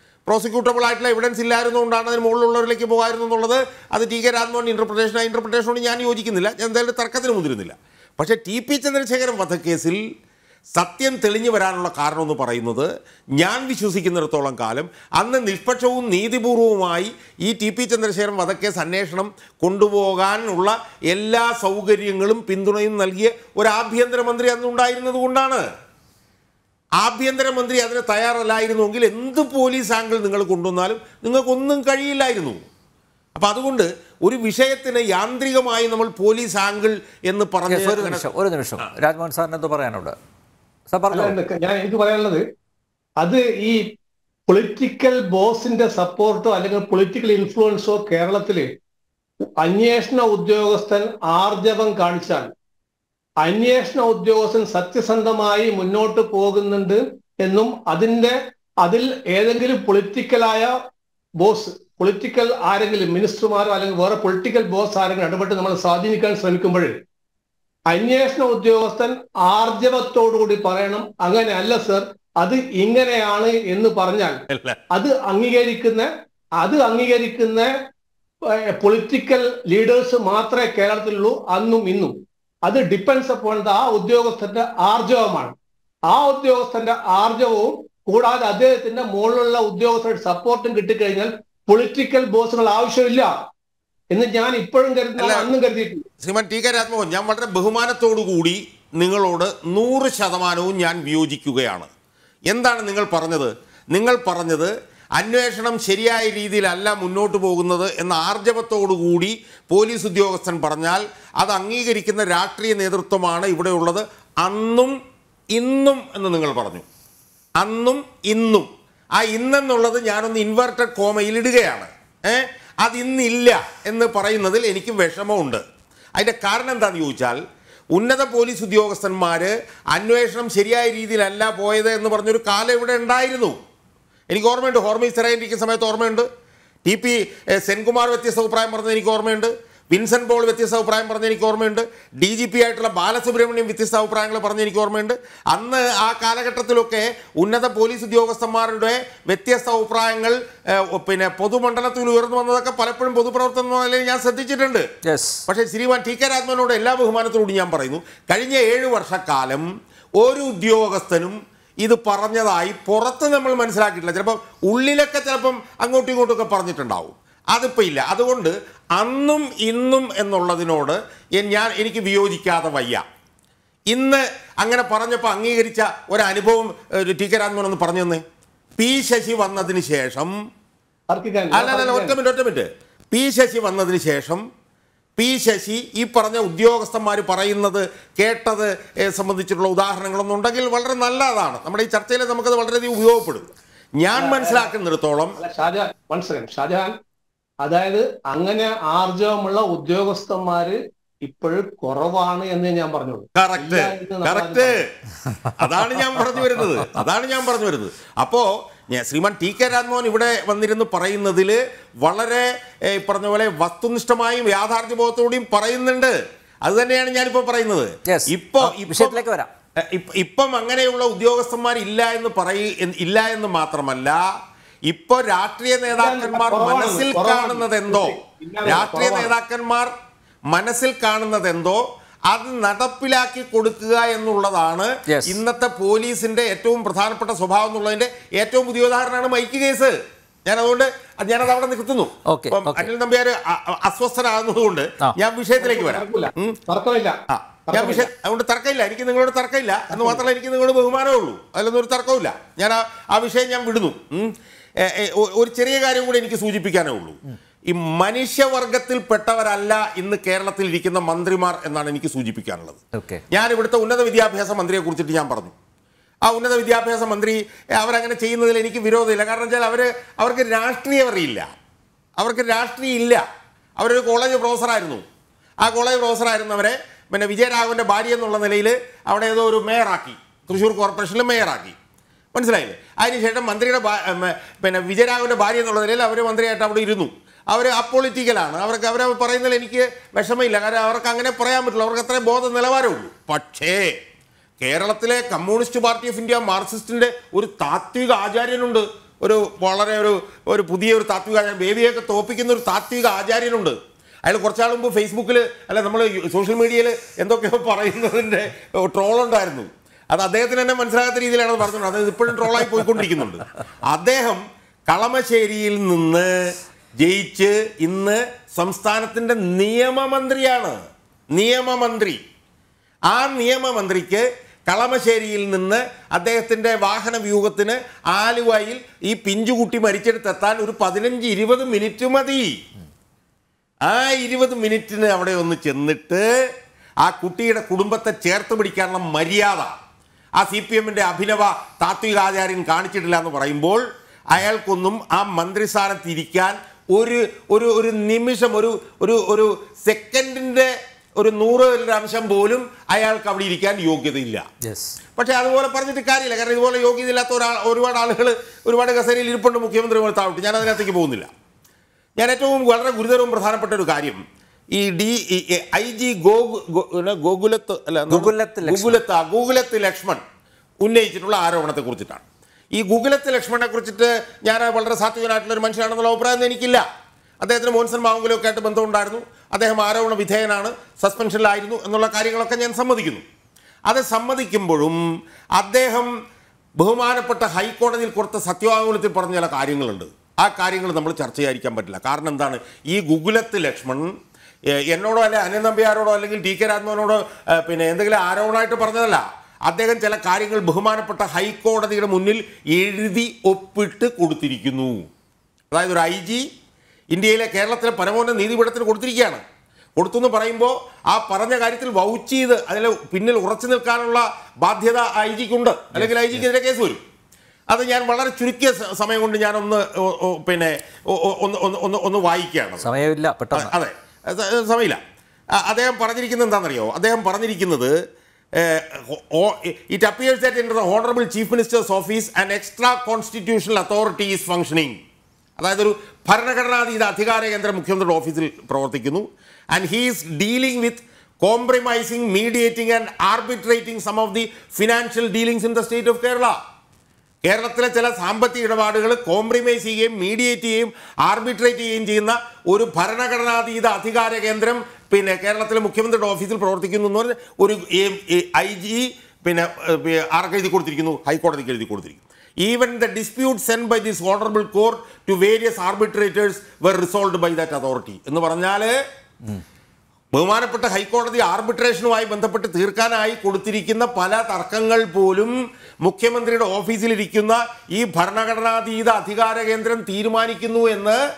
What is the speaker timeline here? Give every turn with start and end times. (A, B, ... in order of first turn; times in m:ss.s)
0:00.3-0:10.0 A
0:10.8-0:25.7 A
0:27.0-0:32.6 A
0:33.4-0:38.2 A
0:37.7-0:40.2 B
0:40.9-0:41.4 B
0:41.1-0:42.4 C
0:43.2-0:43.9 C
0:44.5-0:48.7 C
0:49.6-0:52.5 C
0:53.4-1:00.7 C
1:01.4-1:06.9 C
1:07.9-1:14.4 C
1:14.5-1:14.8 A
1:14.9-1:16.1 C
1:16.6-1:17.7 C
1:18.7-1:22.2 C
1:22.7-1:25.6 C
1:26.1-1:33.3 C
1:34.1-1:36.0 C
1:35.2-1:35.5 A
1:36.2-1:41.9 A
1:42.5-1:54.9 A
1:55.5-1:56.8 A
1:57.6-2:05.6 A
2:06.2-2:07.4 A
2:07.9-2:13.6 A
2:14.3-2:16.3 A
2:16.8-2:34.9 A
2:35.0-2:35.4 B
2:35.5-2:39.7 A
2:40.2-2:53.0 A
2:53.9-2:58.2 A
2:58.8-3:00.3 A
3:01.1-3:02.2 C
3:01.5-3:04.4 A
3:05.2-3:13.5 A
3:14.0-3:15.4 A
3:14.2-3:14.7 C
3:15.4-3:16.9 C
3:17.6-3:24.8 C
3:23.4-3:24.8 A
3:25.6-3:39.2 A
3:38.1-3:39.5 B
3:39.8-3:44.2 A
3:44.9-3:49.9 A
3:45.9-3:49.3 C
3:50.5-4:06.6 A
3:55.1-3:55.4 B
4:02.3-4:02.9 B
4:05.6-4:07.2 C
4:07.3-4:25.5 A
4:07.7-4:08.1 C
4:09.9-4:10.2 C
4:23.0-4:23.2 B
4:26.3-4:31.5 A
4:32.2-4:33.2 A
4:33.8-4:35.0 A
4:35.6-4:41.8 A
4:42.4-4:54.0 A
4:54.6-5:16.3 A
5:17.0-5:20.8 A
5:21.3-5:22.2 A
5:23.1-5:32.5 A
5:33.9-5:36.2 A
5:37.0-5:39.7 A
5:40.4-5:54.4 A
5:54.6-5:55.0 B
5:55.2-6:01.3 A
6:02.2-6:04.2 A
6:04.7-6:10.2 A
6:08.1-6:09.0 B
6:10.8-6:16.8 A
6:17.4-6:23.2 A
6:23.9-6:25.0 A
6:25.6-6:26.1 A
6:26.8-6:34.1 A
6:34.9-6:45.1 A
6:45.7-6:46.4 A
6:47.1-6:49.4 A
6:50.0-6:57.0 A
6:56.0-6:56.4 B
6:57.7-7:02.8 A
7:02.8-7:03.7 B
7:03.5-7:05.0 A
7:05.6-7:07.9 A
7:08.6-7:15.0 A
7:15.6-7:26.6 A
7:27.4-7:48.9 A
7:50.3-8:01.2 A